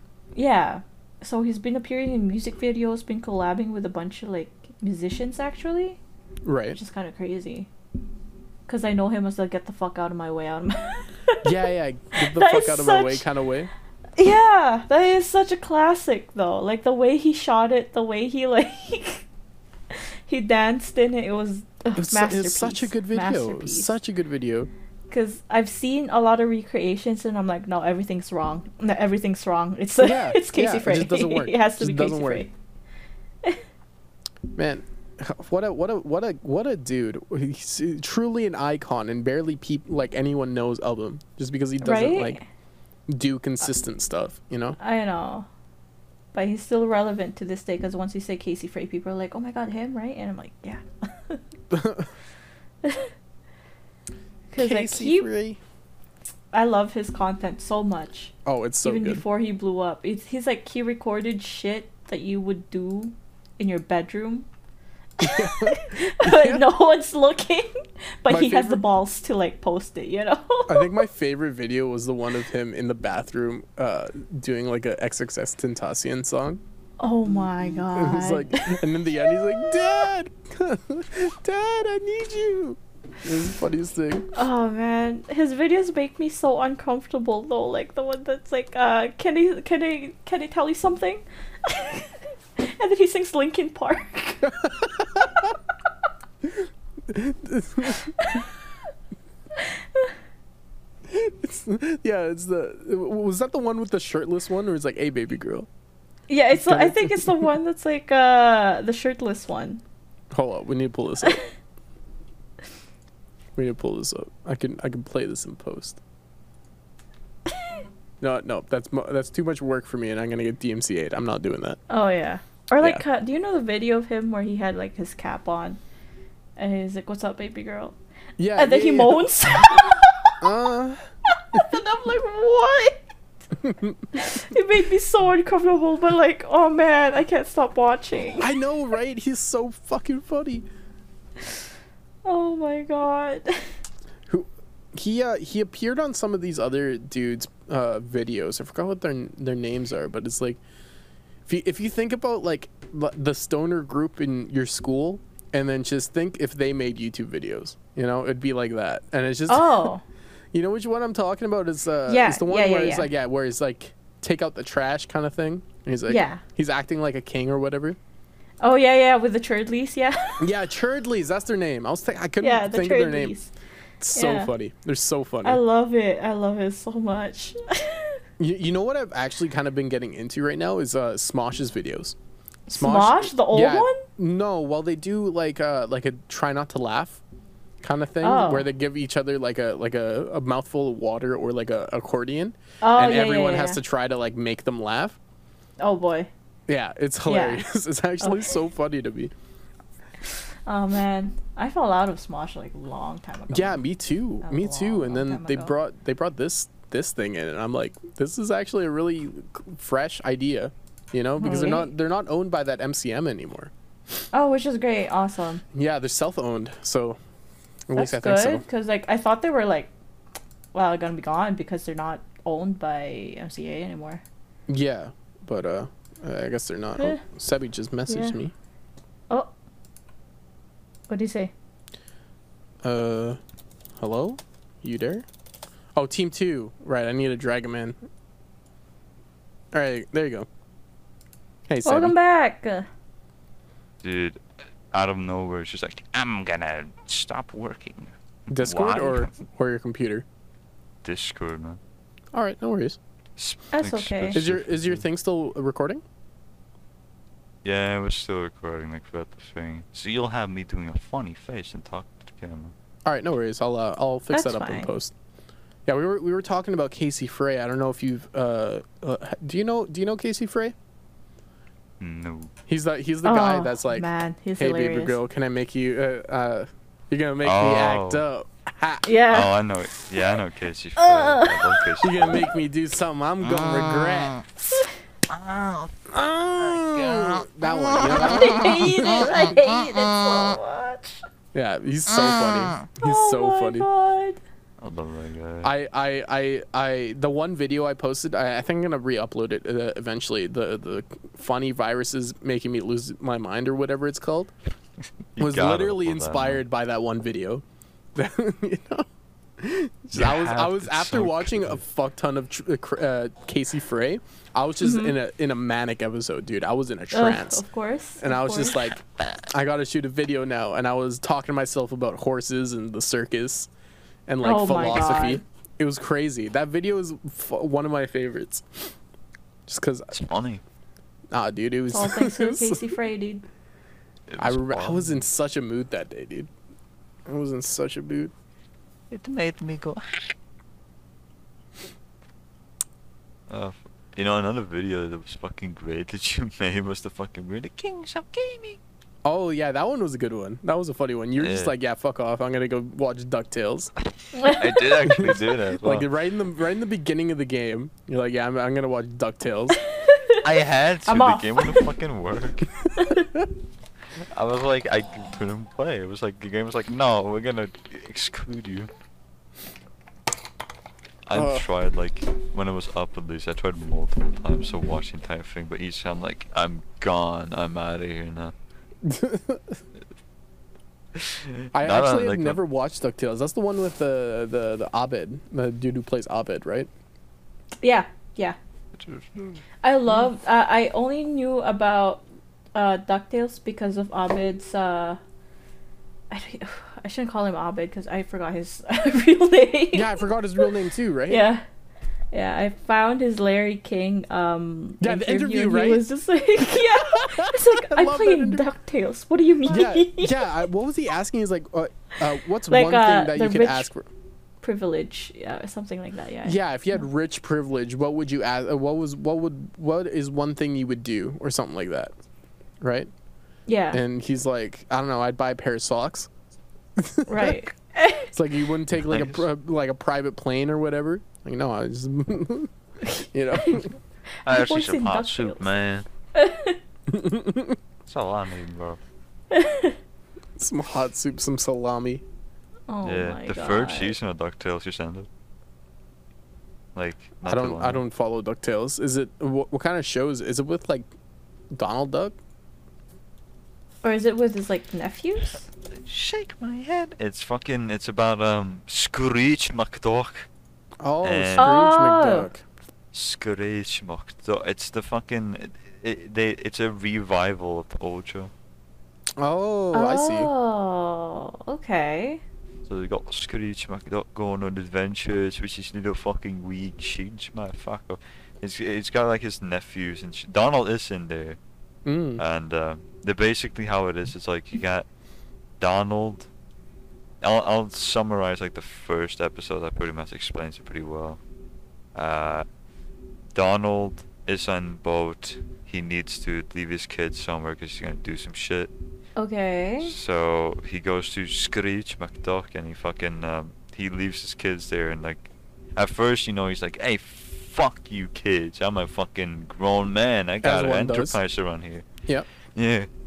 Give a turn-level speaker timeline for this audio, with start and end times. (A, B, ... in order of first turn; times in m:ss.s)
0:00.3-0:06.0 A
0:06.4-0:06.8 B
0:06.7-0:07.7 A
0:08.7-0:11.5 A
0:11.4-0:13.7 B
0:12.2-0:13.2 A
0:14.2-0:19.2 A
0:19.9-0:23.9 A
0:22.0-0:24.7 B
0:25.1-0:32.5 A
0:30.0-0:32.4 B
0:34.5-0:42.4 B
0:41.8-0:42.4 A
0:43.1-0:44.8 B
0:44.8-0:45.5 A
0:46.3-0:51.4 A
0:51.7-0:52.1 B
0:52.8-0:53.1 A
0:54.5-0:55.3 A
0:54.6-0:55.6 B
0:56.5-1:04.4 A
0:58.4-0:59.2 B
1:05.2-1:06.6 B
1:05.2-1:11.0 A
1:08.3-1:08.8 B
1:10.7-1:16.6 B
1:17.0-1:20.0 A
1:17.8-1:24.3 B
1:24.4-1:34.6 A
1:34.5-1:35.5 B
1:36.4-1:38.4 B
1:38.0-1:38.4 A
1:39.6-1:40.1 A
1:41.1-1:45.7 B
1:46.3-1:49.8 A
1:46.6-1:47.5 B
1:50.3-1:51.4 B
1:53.6-1:56.0 B
1:58.2-2:01.8 B
2:01.9-2:05.8 A
2:06.6-2:08.0 A
2:08.4-2:09.8 B
2:08.6-2:10.5 A
2:10.4-2:11.7 B
2:11.3-2:13.0 A
2:13.6-2:14.2 B
2:14.1-2:18.5 A
2:18.4-2:20.6 B
2:22.2-2:23.7 A
2:24.3-2:30.6 B
2:31.5-2:39.9 B
2:39.5-2:40.0 A
2:40.5-2:48.0 B
2:42.1-2:43.1 A
2:46.1-2:46.4 A
2:48.6-2:50.5 A
2:50.4-2:53.3 B
2:52.4-2:53.5 A
2:54.0-2:55.6 B
2:54.1-2:54.5 A
2:55.4-2:58.2 A
2:58.4-3:02.2 B
3:02.7-3:04.0 A
3:02.7-3:07.2 B
3:07.8-3:15.2 B
3:08.2-3:08.7 A
3:12.8-3:13.8 A
3:15.8-3:16.3 A
3:16.7-3:19.3 B
3:17.2-3:17.6 A
3:18.2-3:18.5 A
3:20.2-3:23.8 A
3:23.5-3:33.7 B
3:24.4-3:25.7 A
3:31.4-3:31.9 A
3:34.3-3:35.6 A
3:35.7-3:37.2 B
3:37.9-3:38.6 B
3:38.0-3:39.9 A
3:40.7-3:44.2 A
3:44.7-3:48.5 B
3:48.1-3:48.4 A
3:51.1-3:51.5 A
3:52.8-3:53.4 B
3:54.0-3:55.2 B
3:55.9-3:58.0 B
3:59.7-4:00.5 B
4:01.7-4:02.1 B
4:01.8-4:02.9 A
4:04.0-4:09.4 C
4:08.5-4:10.2 B
4:11.0-4:11.8 C
4:12.3-4:13.0 B
4:13.4-4:15.0 C
4:13.7-4:14.4 A
4:14.3-4:16.0 B
4:17.6-4:22.7 C
4:23.0-4:25.1 B
4:24.3-4:24.9 A
4:25.8-4:30.7 B
4:32.0-4:32.5 C
4:32.7-4:34.1 B
4:33.2-4:35.2 A
4:34.6-4:39.1 B
4:37.4-4:38.2 C
4:39.0-4:39.5 A
4:39.3-4:42.4 C
4:41.0-4:42.3 A
4:42.0-4:44.4 B
4:43.5-4:44.4 C
4:44.6-4:44.9 A
4:45.3-4:47.5 C
4:46.1-4:49.5 B
4:48.0-4:51.2 A
4:51.5-4:53.8 B
4:53.0-4:54.4 A
4:54.8-4:55.7 C
4:55.6-5:04.5 B
5:05.3-5:06.6 C
5:05.4-5:07.6 B
5:08.1-5:09.0 B
5:09.6-5:17.6 B
5:10.1-5:11.8 C
5:14.8-5:15.1 A
5:17.1-5:18.9 A
5:18.2-5:23.7 B
5:24.3-5:28.9 B
5:24.4-5:25.4 A
5:29.7-5:30.1 B
5:30.1-5:30.6 C
5:31.3-5:32.9 B
5:31.9-5:33.4 A
5:34.3-5:35.3 C
5:34.4-5:36.5 B
5:37.3-5:38.3 B
5:39.1-5:40.3 C
5:43.5-5:48.8 C
5:49.2-5:53.9 B
5:51.4-5:51.7 C
5:54.3-5:54.8 A
5:54.4-5:56.1 C
5:55.0-5:59.8 B
5:59.9-6:00.4 A
6:00.4-6:02.7 C
6:01.1-6:01.9 A
6:02.9-6:03.3 A
6:04.3-6:08.9 C
6:11.2-6:18.5 C
6:11.3-6:11.6 B
6:19.0-6:19.8 B
6:21.1-6:22.6 C
6:21.7-6:26.9 B
6:27.8-6:28.6 A
6:28.9-6:29.6 C
6:29.8-6:32.2 A
6:32.7-6:35.2 A
6:36.3-6:40.2 A
6:39.9-6:41.4 B
6:41.3-6:41.6 A
6:42.3-6:50.5 A
6:45.0-6:46.0 B
6:46.6-6:48.6 B
6:49.6-6:54.1 B
6:52.7-6:53.9 A
6:54.6-6:57.0 A
6:56.4-7:02.1 B
7:02.8-7:03.1 B
7:03.7-7:04.0 A
7:03.9-7:06.3 B
7:07.0-7:07.6 B
7:07.3-7:08.3 A
7:08.3-7:12.7 B
7:09.0-7:09.4 C
7:13.0-7:13.9 A
7:13.3-7:13.9 B
7:14.4-7:16.0 C
7:14.5-7:15.6 A
7:16.3-7:16.8 A
7:17.1-7:17.8 B
7:18.0-7:19.0 C
7:19.5-7:20.0 A
7:20.6-7:22.2 B
7:22.9-7:24.1 A
7:23.0-7:25.3 C
7:26.9-7:28.0 C
7:27.4-7:31.1 B
7:31.7-7:32.4 B
7:34.0-7:35.6 A
7:35.9-7:40.5 C
7:41.0-7:42.6 B
7:41.2-7:41.7 C
7:41.6-7:42.5 A
7:43.1-7:48.5 C
7:49.4-7:50.5 B
7:49.9-7:52.4 A
7:52.8-8:01.6 C
8:02.0-8:02.4 B
8:02.4-8:05.1 C
8:05.8-8:06.5 C
8:07.4-8:11.4 C
8:12.1-8:12.6 C
8:13.5-8:18.9 C
8:19.4-8:20.1 A
8:20.0-8:32.1 C
8:30.6-8:31.4 B
8:32.7-8:33.1 C